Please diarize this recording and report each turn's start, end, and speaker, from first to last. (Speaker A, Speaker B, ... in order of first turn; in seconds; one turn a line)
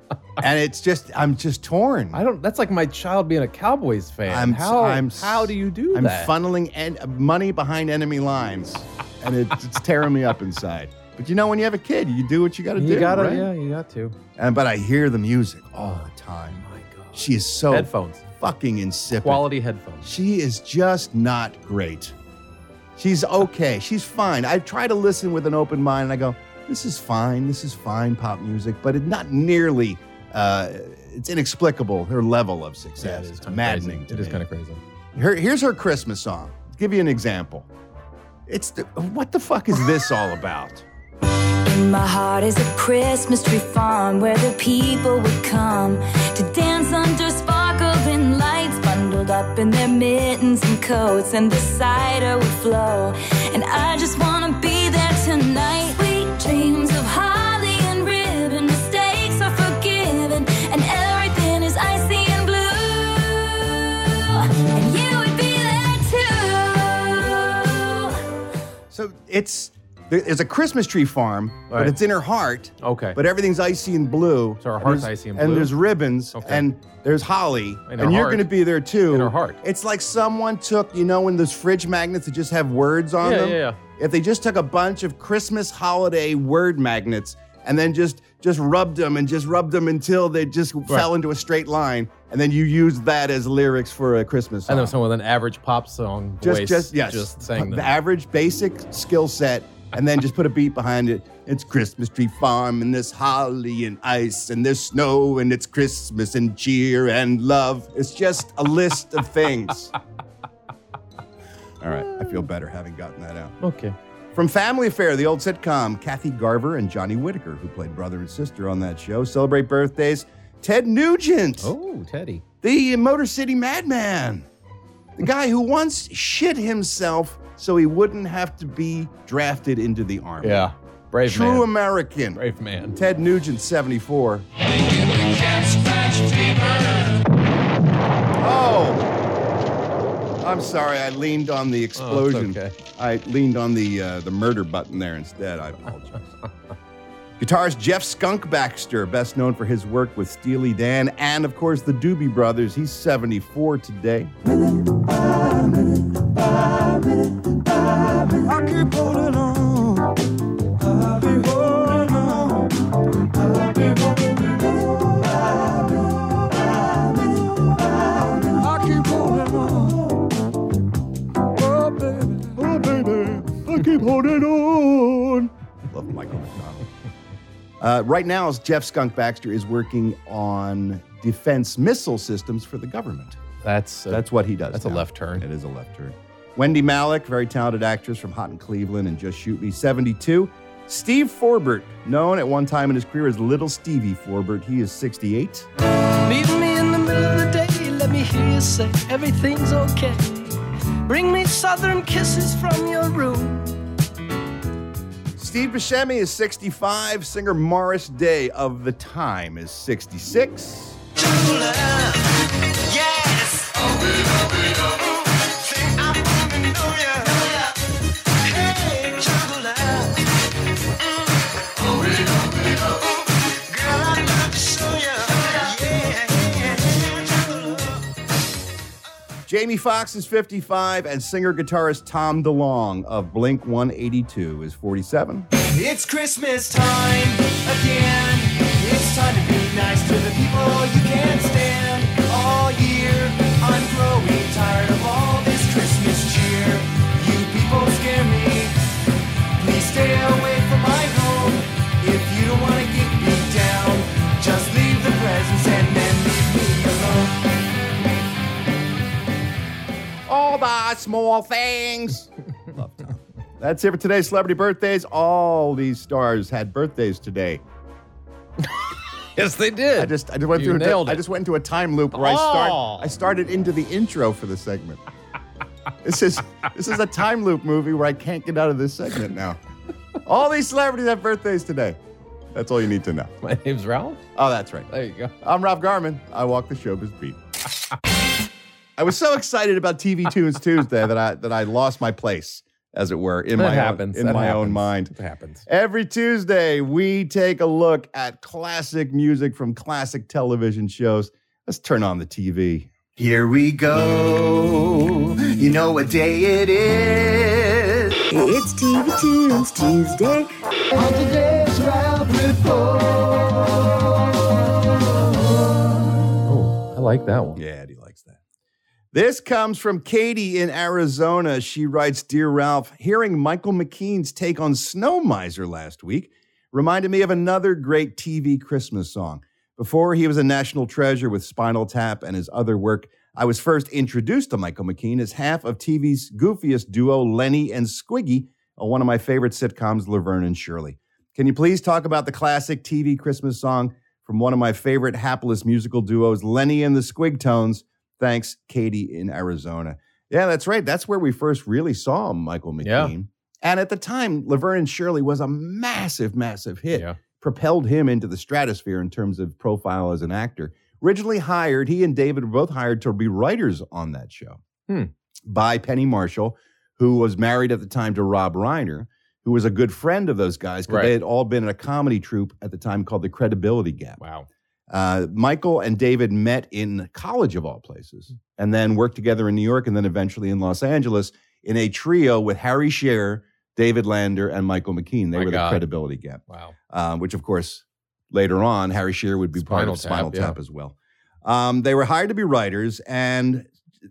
Speaker A: 0.4-2.2
Speaker B: 2.1-6.3
Speaker A: 4.3-13.5
Speaker B: 12.8-14.2
Speaker A: 14.3-19.5
Speaker B: 15.8-18.2
Speaker B: 19.2-20.1
Speaker A: 20.0-22.1
Speaker A: 23.0-34.4
Speaker B: 33.0-34.8
Speaker A: 35.1-37.7
Speaker A: 38.5-40.8
Speaker C: 41.6-68.2
Speaker A: 68.9-94.9
Speaker B: 72.8-73.2
Speaker B: 74.6-75.7
Speaker B: 76.3-76.7
Speaker B: 77.9-78.5
Speaker B: 79.1-79.6
Speaker B: 83.2-83.8
Speaker B: 94.7-97.9
Speaker A: 96.4-109.9
Speaker A: 111.8-113.5
Speaker B: 113.6-114.0
Speaker A: 114.3-121.7
Speaker B: 121.6-122.4
Speaker A: 122.6-124.5
Speaker A: 125.2-130.7
Speaker B: 130.4-131.7
Speaker A: 131.2-132.4
Speaker B: 132.3-133.0
Speaker A: 132.9-134.5
Speaker A: 138.4-139.0
Speaker A: 140.4-146.3
Speaker B: 141.9-142.7
Speaker A: 147.4-154.5
Speaker A: 158.5-160.0
Speaker A: 160.9-162.6
Speaker A: 168.7-170.0
Speaker A: 171.6-176.9
Speaker A: 177.8-183.4
Speaker B: 183.6-185.4
Speaker A: 184.1-195.7
Speaker D: 196.2-200.5
Speaker D: 201.1-203.8
Speaker A: 205.4-211.0
Speaker E: 211.2-212.2
Speaker E: 212.9-217.6
Speaker E: 218.4-220.2
Speaker E: 221.9-223.0
Speaker E: 223.7-227.9
Speaker A: 229.5-235.5
Speaker E: 235.6-248.8
Speaker E: 249.6-257.5
Speaker A: 260.3-267.6
Speaker B: 269.4-271.2
Speaker A: 270.0-275.0
Speaker B: 272.1-273.1
Speaker A: 276.0-279.6
Speaker A: 280.2-282.0
Speaker A: 282.5-283.3
Speaker B: 283.4-284.2
Speaker A: 284.3-284.9
Speaker B: 284.9-285.3
Speaker A: 285.4-287.4
Speaker A: 289.0-295.1
Speaker B: 293.5-295.6
Speaker A: 295.6-302.9
Speaker E: 303.2-308.1
Speaker F: 308.3-310.5
Speaker E: 310.9-314.0
Speaker B: 316.4-317.6
Speaker A: 317.6-318.4
Speaker A: 319.1-364.6
Speaker B: 352.8-353.1
Speaker B: 356.9-357.2
Speaker A: 365.4-374.2
Speaker B: 370.9-371.1
Speaker B: 374.2-374.5
Speaker A: 374.9-393.7
Speaker B: 385.3-385.8
Speaker B: 386.5-386.7
Speaker B: 389.6-390.6